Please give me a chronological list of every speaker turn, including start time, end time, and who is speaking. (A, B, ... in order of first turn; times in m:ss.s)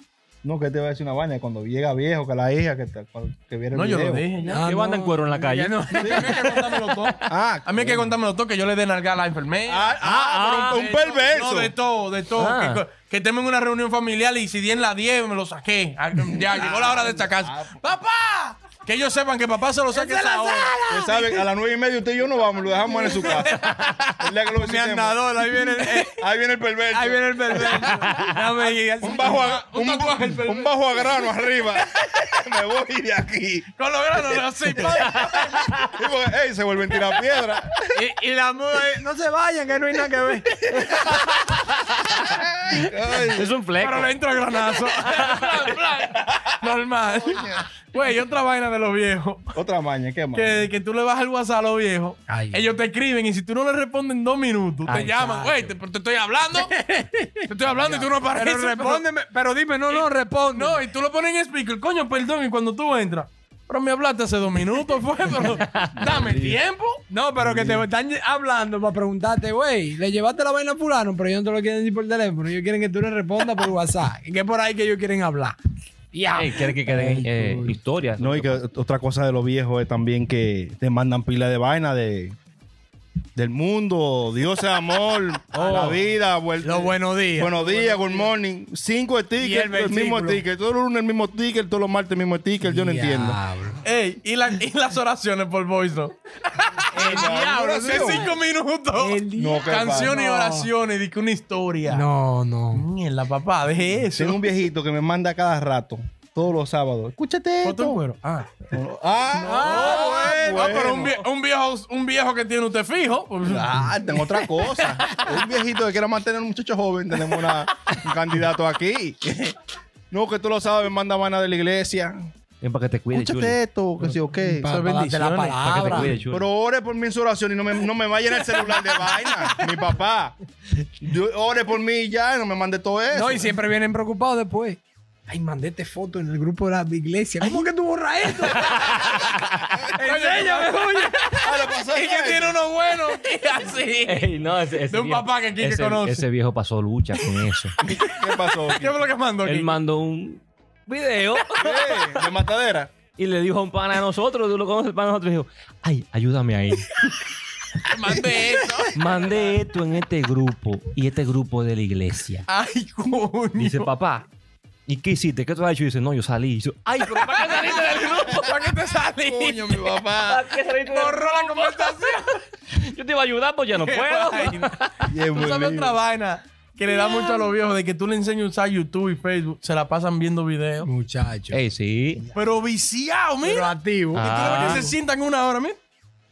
0:00.4-0:04.2 A
0:03.7-0:04.6 B
0:04.4-0:07.0 C
0:04.6-0:05.8 D
0:05.9-0:10.0 B
0:06.0-0:06.4 A
0:07.3-0:08.2 A
0:09.7-0:11.7 A
0:10.0-0:10.9 D
0:10.6-0:20.7 B
0:12.4-0:12.8 D
0:16.4-0:17.9 A
0:19.9-0:21.4 C
0:20.9-0:25.3 A
0:22.9-0:23.5 C
0:23.1-0:24.2 B
0:24.5-0:26.1 C
0:25.4-0:26.1 B
0:26.1-0:27.9 A
0:26.9-0:29.6 C
0:27.5-0:27.8 B
0:27.9-0:28.4 D
0:29.0-0:35.3 A
0:29.2-0:31.2 B
0:33.8-0:35.7 B
0:34.7-0:35.9 D
0:35.9-0:38.0 A
0:37.9-0:41.2 C
0:41.4-0:42.2 D
0:42.3-0:43.5 A
0:43.3-0:44.1 D
0:43.8-0:49.6 B
0:44.9-0:45.7 D
0:47.1-0:47.6 A
0:49.5-0:50.7 A
0:50.3-0:56.7 B
0:52.3-0:52.7 C
0:54.8-0:55.2 D
0:55.0-0:55.6 C
0:56.5-1:00.8 C
0:57.4-0:59.0 B
0:59.9-1:07.0 B
1:05.4-1:06.0 D
1:06.0-1:06.6 A
1:07.1-1:15.6 C
1:07.4-1:07.9 A
1:16.1-1:17.7 C
1:16.3-1:18.6 D
1:18.2-1:22.3 A
1:23.4-1:33.4 A
1:25.5-1:26.0 D
1:26.6-1:27.6 C
1:27.5-1:28.3 B
1:29.4-1:30.4 C
1:32.6-1:33.8 C
1:33.8-1:42.0 B
1:36.9-1:38.3 C
1:36.9-1:38.3 A
1:39.0-1:40.7 C
1:39.4-1:40.2 A
1:41.9-1:42.8 C
1:42.7-1:44.5 B
1:44.1-1:48.0 A
1:47.6-1:48.5 B
1:48.7-1:51.2 A
1:49.4-1:50.6 C
1:49.4-1:55.4 B
1:49.6-1:50.1 D
1:50.9-1:51.2 D
1:53.4-1:59.5 A
2:00.1-2:02.3 A
2:02.6-2:03.6 D
2:03.1-2:04.7 A
2:04.4-2:06.1 C
2:04.6-2:06.1 B
2:05.6-2:06.5 D
2:06.3-2:10.3 A
2:11.0-2:13.5 A
2:13.1-2:19.2 C
2:18.7-2:19.3 D
2:19.9-2:21.5 C
2:20.0-2:21.1 B
2:21.4-2:22.6 A
2:21.9-2:24.3 B
2:24.0-2:27.7 D
2:24.9-2:26.2 B
2:27.8-2:29.1 A
2:28.2-2:29.8 B
2:29.4-2:32.2 D
2:31.6-2:32.9 A
2:33.2-2:36.9 D
2:37.8-2:39.5 B
2:38.9-2:42.4 D
2:42.5-2:43.9 B
2:43.6-2:44.2 D
2:44.9-2:48.6 D
2:47.0-2:50.0 B
2:49.2-2:50.4 A
2:50.2-2:52.1 D
2:50.9-2:52.4 B
2:52.7-2:55.0 D
2:53.8-2:54.7 B
2:55.1-2:56.0 A
2:55.3-3:00.9 B
2:56.9-2:57.4 C
3:00.8-3:01.6 C
3:01.5-3:02.2 D
3:02.3-3:05.8 B
3:03.4-3:04.9 C
3:04.1-3:04.9 D